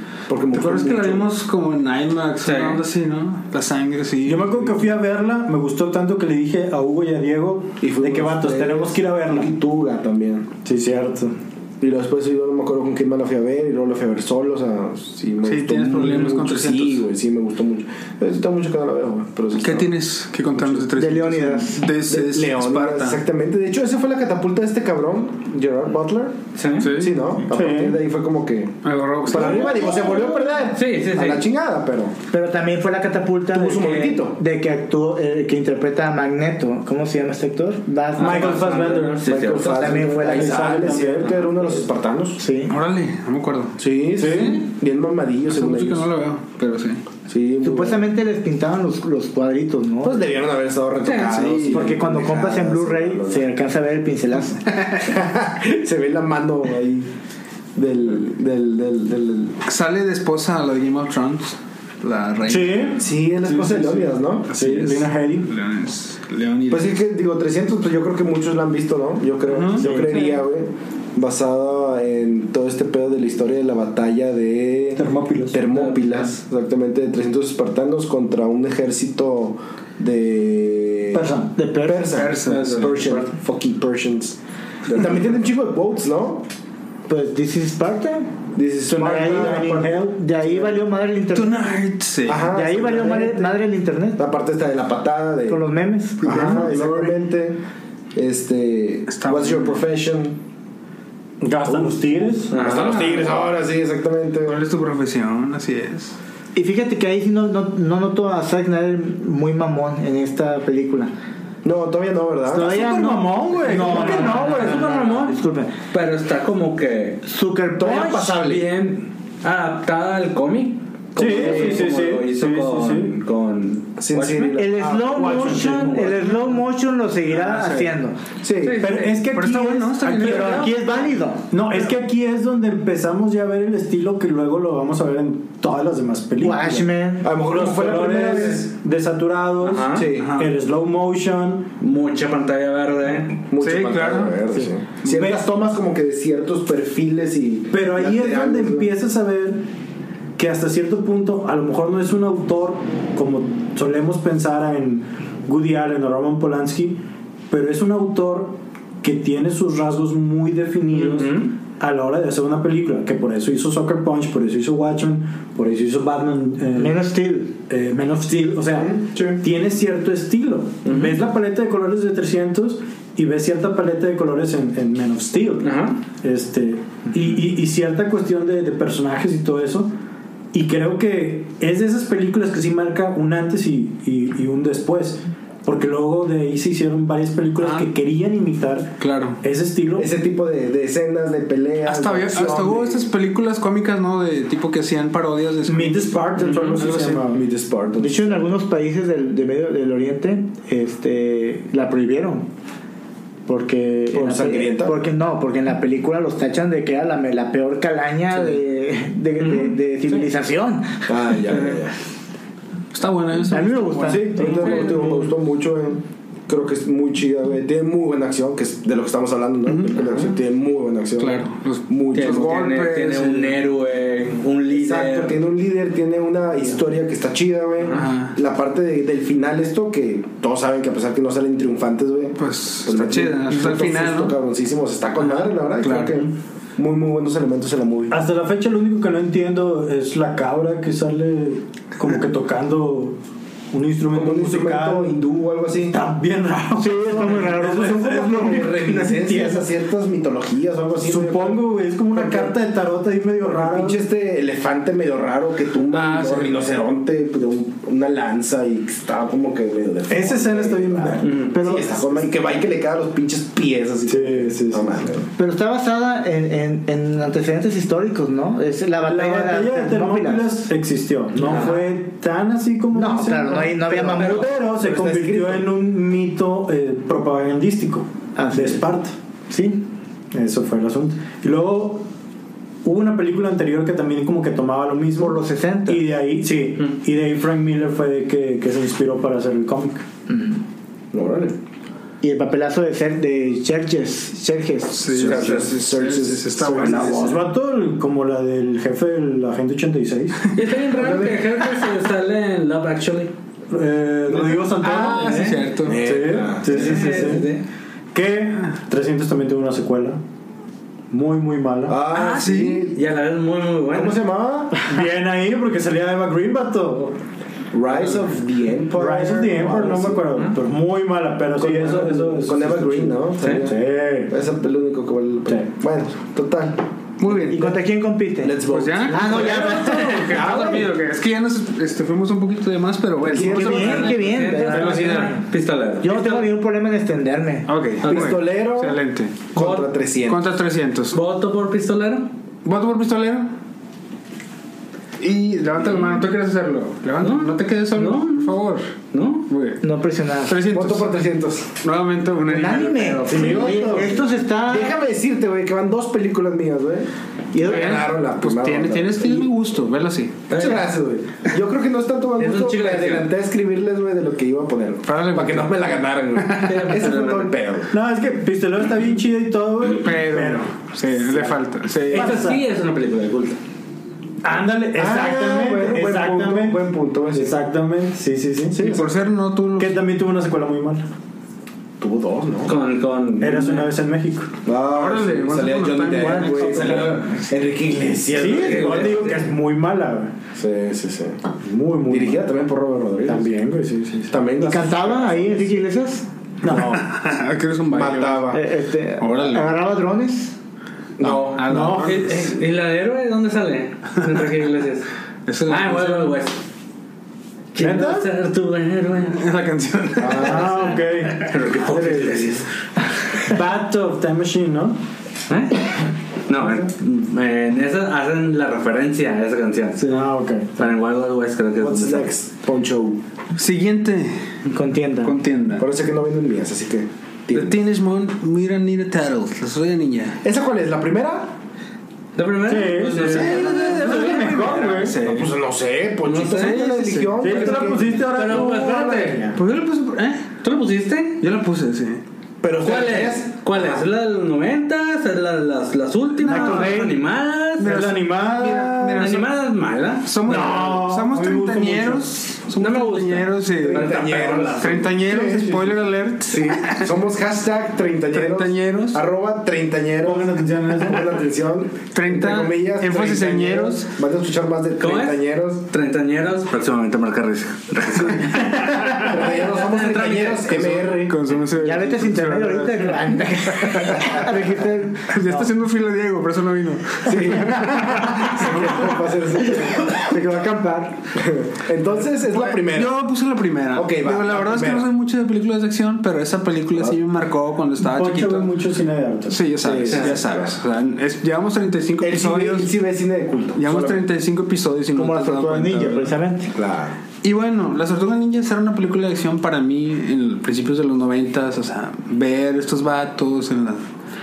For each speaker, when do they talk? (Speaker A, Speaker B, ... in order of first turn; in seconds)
Speaker A: 0.3-1.3, 7.8-10.5, 11.8-19.9, 20.5-20.9, 22.1-28.7, 29.3-32.1, 33.5-34.4, 39.2-42.4, 43.8-46.1, 47.3-48.0, 50.0-53.5, 55.0-57.1, 57.8-59.6, 63.0-64.5, 66.7-81.3, 81.8-86.5, 88.5-90.0, 92.3-93.5, 94.2-95.6, 96.2-97.6, 98.2-100.4, 101.7-102.0, 102.5-104.7, 111.6-112.7, 117.8-118.7, 121.3-121.8, 124.0-126.0, 128.4-128.8, 137.2-138.7, 139.9-140.3, 143.5-148.9, 168.8-169.4, 190.0-193.1, 196.6-198.4, 204.1-205.0, 211.1-211.9, 214.0-223.2, 224.7-238.2, 244.1-246.0, 247.4-252.6, 253.4-265.2, 274.0-275.7, 291.1-291.6, 295.1-297.4, 300.9-301.5, 304.3-304.6, 305.8-307.4, 311.9-313.0, 313.9-314.8, 317.7-320.3, 321.6-327.7, 328.4-330.9, 333.2-334.2, 338.1-339.0, 339.5-340.4, 350.7-351.7, 353.3-359.5, 360.6-367.9, 374.9-377.6, 378.7-379.1, 382.0-382.8, 384.7-389.2, 390.6-391.4, 392.1-393.5, 394.3-395.7, 397.9-398.6, 401.2-401.6, 410.2-410.8, 421.8-423.2, 425.8-427.8, 430.4-431.5, 435.2-438.9, 442.6-444.1, 452.8-455.8, 456.5-465.8, 469.1-471.3, 473.9-474.4, 477.2-480.2, 481.4-483.2, 483.9-485.1, 489.8-490.8, 492.2-494.3, 496.7-497.2
Speaker B: 0.5-4.8, 15.4-17.1, 19.6-23.2, 26.8-27.2, 28.8-30.1, 42.7-44.6, 45.5-47.0, 51.3-51.9, 59.7-63.0, 64.5-67.0, 69.5-70.3, 82.1-83.3, 91.3-92.5, 96.2-97.2, 99.1-99.9, 104.5-106.2, 127.3-127.9, 128.9-130.8, 140.0-140.5, 143.6-144.4, 187.6-187.9, 189.0-189.4, 191.8-197.2, 211.5-211.8, 212.9-214.8, 219.7-220.3, 221.2-223.6, 227.8-228.3, 232.4-234.4, 235.2-236.3, 255.9-256.8, 294.9-297.3, 304.7-306.0, 312.1-312.9, 327.2-327.7, 328.6-335.4, 337.7-339.5, 340.3-341.2, 342.6-343.5, 345.2-348.9, 349.5-349.8, 350.5-354.0, 357.6-360.5, 365.1-366.9, 369.9-372.4, 378.8-380.0, 384.9-387.3, 396.7-398.5, 399.2-399.7, 401.2-402.5, 405.5-406.4, 409.3-410.7, 423.6-424.5, 425.2-425.9, 427.5-430.4, 433.1-435.5, 436.3-437.7, 439.6-440.6, 441.4-442.2, 446.5-446.9, 447.8-449.5, 450.2-457.1, 458.3-459.2, 462.1-464.1, 468.4-469.3, 470.8-474.4, 475.3-479.2, 482.5-488.7, 489.5-492.9, 493.8-496.3, 497.4-504.0
Speaker C: 2.4-2.8, 26.6-26.9, 30.7-31.5, 33.8-34.2, 38.1-40.0, 51.0-51.4, 75.7-76.3, 102.5-103.4, 113.8-117.2, 118.0-124.6, 128.6-129.2, 139.6-140.1, 141.8-143.4, 160.9-161.5, 170.8-171.2, 175.6-176.0, 196.4-196.8, 209.4-209.7, 214.4-215.3, 222.1-225.4, 261.2-261.6, 300.5-303.3, 304.9-305.7, 306.6-307.6, 312.9-314.2, 329.9-330.2, 333.8-336.5, 338.0-338.4, 339.6-339.9, 341.1-342.3, 347.2-348.6, 349.1-349.5, 360.5-360.9, 362.4-363.3, 366.6-367.5, 372.1-373.6, 382.7-383.9, 388.4-389.4, 402.0-405.1, 405.7-406.6, 407.7-409.4, 411.4-412.7, 415.5-420.2, 420.8-422.3, 432.4-434.7, 438.2-439.5, 440.6-441.4, 442.8-447.9, 449.2-450.8, 452.8-455.0, 465.0-469.0, 469.6-470.8, 490.1-490.4
Speaker D: 4.2-9.5, 10.7-11.4, 27.5-28.0, 29.3-30.5, 38.2-39.3, 40.2-41.5, 44.2-44.6, 62.5-65.5, 69.8-70.3, 75.0-75.6, 81.1-81.5, 88.9-90.2, 101.4-102.7, 112.5-114.8, 121.2-123.2, 125.1-126.4, 128.8-130.7, 131.5-141.7, 144.6-145.4, 147.7-149.7, 150.4-167.0, 167.7-179.9, 180.5-190.1, 195.7-197.5, 238.1-243.2, 243.7-245.2, 245.9-249.7, 251.0-254.0, 260.1-261.9, 264.1-265.1, 269.0-279.1, 280.3-282.1, 282.8-290.1, 296.6-300.4, 303.7-307.5, 308.1-310.2, 311.1-312.0, 314.9-317.2, 318.9-324.3, 353.3-354.2, 367.9-370.7, 372.1-372.6, 374.4-379.0, 379.8-381.1, 383.4-384.5, 388.3-390.3, 391.6-392.5, 393.2-394.4, 396.6-397.1, 401.7-402.5, 407.8-408.3, 410.4-412.6, 413.4-415.0, 420.0-420.9, 432.7-435.2, 437.4-439.6, 446.5-446.9, 447.8-449.3, 450.5-452.5, 455.3-455.8, 460.2-461.4, 470.9-471.3, 480.1-481.1, 488.0-489.6
Speaker E: 21.0-21.9, 32.3-38.7, 39.6-40.9, 42.4-42.7, 47.6-50.2, 51.7-54.6, 81.5-82.2, 87.1-88.3, 88.9-91.6, 92.5-94.2, 95.5-96.5, 106.5-111.1, 112.5-115.8, 117.2-118.4, 124.5-128.2, 130.1-131.5, 136.4-137.3, 166.8-167.6, 198.0-202.5, 203.5-211.1, 213.5-215.2, 246.8-248.9, 261.5-261.9, 265.4-270.6, 271.4-271.8, 272.9-274.5, 278.4-278.8, 279.5-279.8, 285.2-286.0, 290.3-290.6, 292.2-295.3, 327.5-330.8, 333.3-335.5, 336.0-337.7, 349.8-350.6, 352.5-355.0, 357.5-358.1, 386.2-387.2, 394.6-396.3, 398.5-400.5, 424.7-425.3, 446.4-447.1, 471.8-475.7, 495.1-496.7